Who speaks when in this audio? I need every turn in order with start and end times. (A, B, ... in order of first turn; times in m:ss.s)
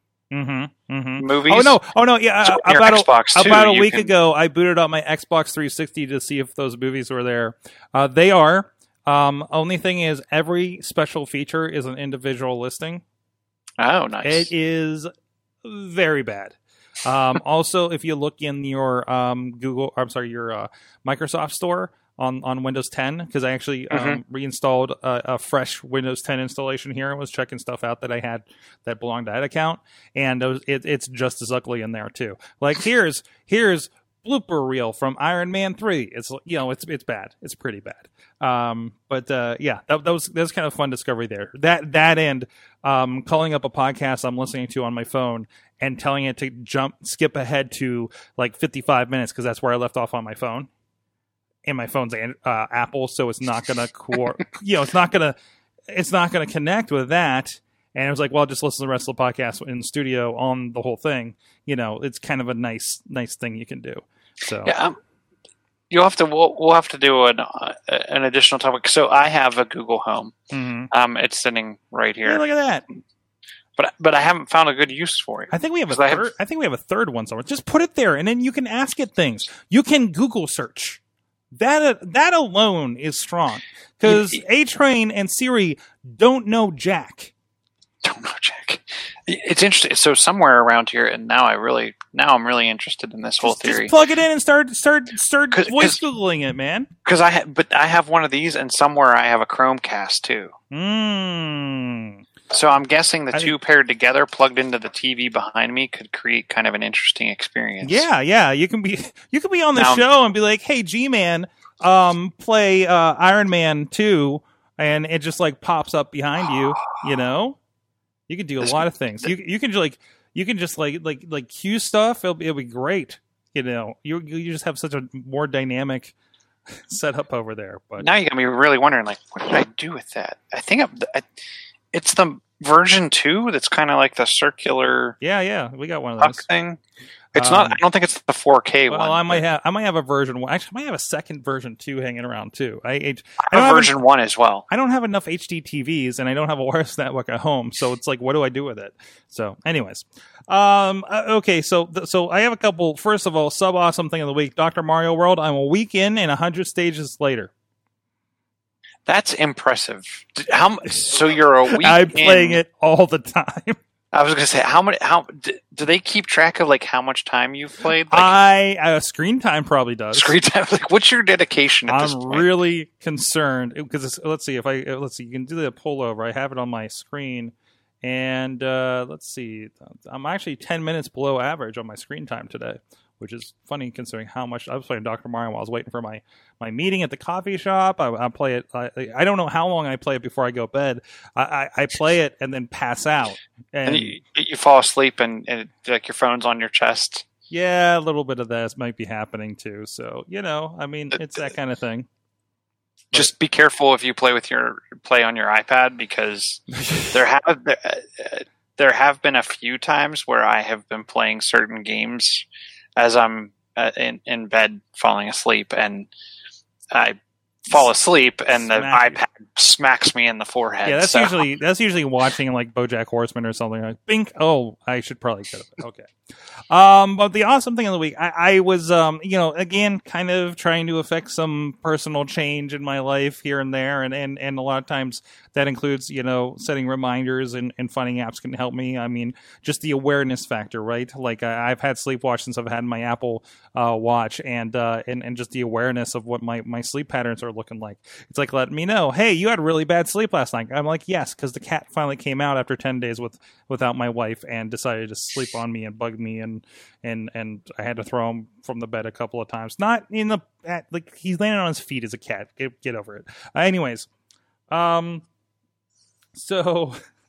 0:00.3-0:13.0 A
0:01.2-0:01.8 B
0:02.4-0:04.1 B
0:13.8-0:14.5 B
0:14.2-0:15.1 A
0:15.6-0:50.7 A
0:23.9-0:24.2 B
0:51.6-0:55.4 A
0:55.9-1:04.8 A
1:04.6-1:05.0 B
1:05.9-1:10.3 B
1:10.5-1:10.9 A
1:10.9-1:12.4 B
1:12.2-1:12.8 A
1:13.8-1:16.3 B
1:15.5-1:21.0 A
1:21.5-1:27.3 A
1:24.0-1:24.4 B
1:28.0-1:33.9 B
1:33.4-1:36.9 A
1:35.5-1:36.0 B
1:37.0-1:40.5 B
1:40.7-1:42.2 A
1:42.5-1:48.1 B
1:47.8-1:57.6 A
1:49.7-1:50.0 B
1:58.3-2:06.1 A
1:58.6-1:59.3 B
2:06.7-2:08.1 A
2:08.0-2:11.3 B
2:11.9-2:15.2 B
2:15.2-2:16.4 A
2:16.2-2:16.8 B
2:17.3-2:17.8 A
2:17.3-2:19.4 B
2:18.9-2:24.0 A
2:23.4-2:24.6 B
2:24.7-2:37.5 A
2:39.0-2:42.6 B
2:41.7-2:43.8 A
2:44.1-2:48.4 B
2:48.1-2:50.4 A
2:50.1-2:52.5 B
2:51.9-3:14.2 A
3:13.9-3:17.3 B
3:17.5-3:22.1 A
3:23.1-3:32.4 B
3:26.8-3:27.1 A
3:33.0-3:36.1 B
3:36.9-3:41.4 B
3:38.6-3:39.2 A
3:40.8-3:46.1 A
3:46.7-4:24.1 A
4:24.7-4:25.2 A
4:26.3-4:27.0 A